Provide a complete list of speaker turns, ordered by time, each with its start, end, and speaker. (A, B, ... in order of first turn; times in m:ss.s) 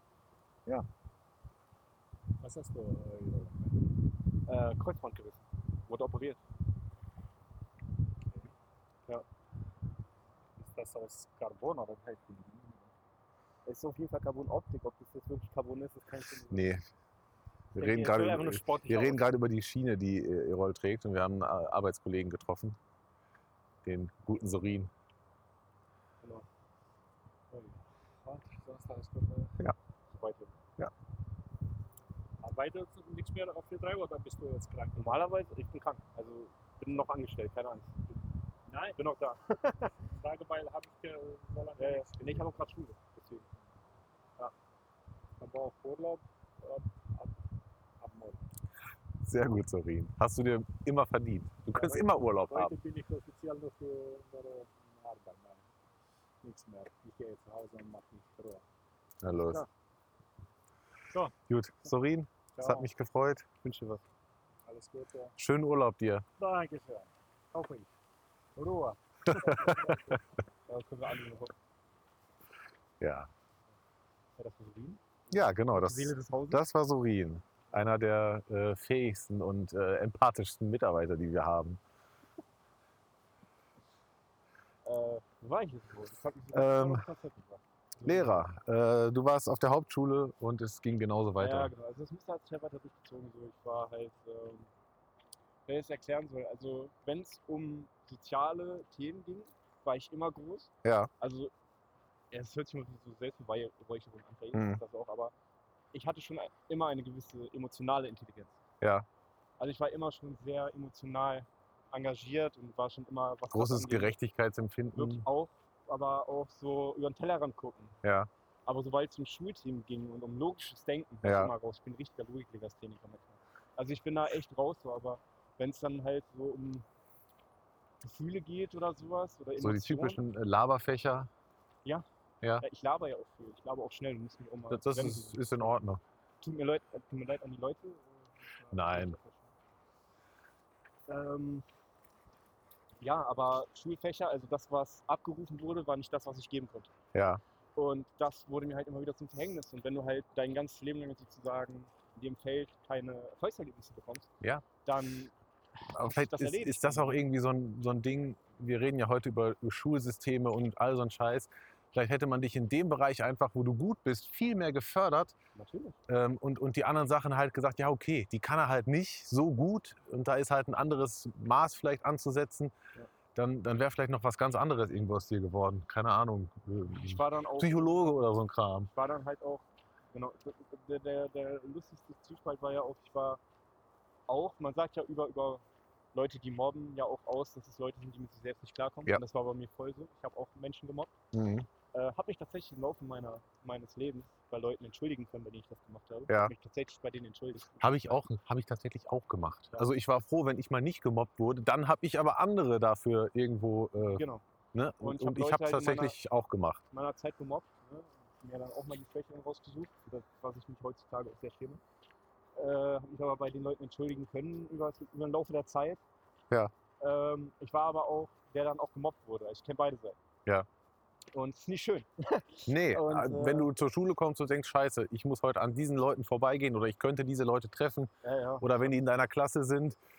0:02.4-0:03.9 A
0:04.5-0:06.4 B
0:10.6-0:12.9 A
0:13.7-0:16.7 B
0:16.5-0:16.8 C
0:17.7-0:22.8 C
0:17.8-0:19.2 B
0:23.8-0:24.9 C
0:27.5-0:29.6 A
0:30.1-0:30.6 B
0:32.4-0:35.3 A
0:35.0-0:38.0 B
0:38.7-0:39.0 A
0:39.0-0:39.9 B
0:40.0-0:42.7 A
0:41.8-0:43.5 B
0:45.4-0:47.4 A
0:48.0-0:48.5 A
0:49.2-0:52.8 C
0:51.7-0:55.6 A
0:56.4-0:58.6 A
0:59.2-0:59.6 C
0:59.4-0:59.7 B
1:01.5-1:03.5 C
1:02.6-1:02.9 A
1:03.6-1:04.0 B
1:04.7-1:05.4 A
1:05.4-1:06.2 C
1:06.4-1:07.8 A
1:07.6-1:07.8 B
1:08.6-1:10.2 A
1:09.3-1:10.0 C
1:09.3-1:09.7 B
1:10.7-1:11.5 B
1:13.0-1:13.3 C
1:14.4-1:16.6 B
1:15.3-1:21.8 C
1:24.8-1:28.4 B
1:26.5-1:27.0 C
1:28.0-1:31.7 C
1:31.4-1:34.7 B
1:35.7-1:41.5 B
1:40.8-1:41.1 C
1:42.3-1:45.3 B
1:44.5-1:44.8 C
1:45.9-1:48.6 B
1:48.8-1:49.1 C
1:49.6-1:54.2 B
1:53.5-1:55.2 C
1:54.9-1:58.0 B
1:58.0-1:58.3 C
1:58.7-2:06.8 B
2:01.2-2:01.5 C
2:08.0-2:10.2 B
2:09.6-2:11.3 C
2:12.6-2:15.4 B
2:14.7-2:16.0 C
2:16.4-2:19.5 B
2:18.7-2:19.2 C
2:21.1-2:21.6 B
2:23.0-2:26.9 B
2:27.1-2:27.4 C
2:27.8-2:34.3 B
2:34.8-2:37.2 B
2:35.9-2:45.4 C
2:45.6-2:46.0 B
2:46.1-2:52.7 C
2:53.4-2:58.9 C
2:57.0-2:58.0 B
2:58.9-3:03.4 B
3:04.3-3:05.6 B
3:06.1-3:11.1 B
3:11.3-3:11.7 C
3:11.9-3:18.2 B
3:17.8-3:26.8 C
3:24.2-3:24.4 B
3:25.0-3:26.2 B
3:26.9-3:31.8 B
3:32.6-3:36.0 B
3:37.0-3:40.2 B
3:41.3-3:43.7 B
3:42.7-3:50.0 C
3:48.2-3:49.1 B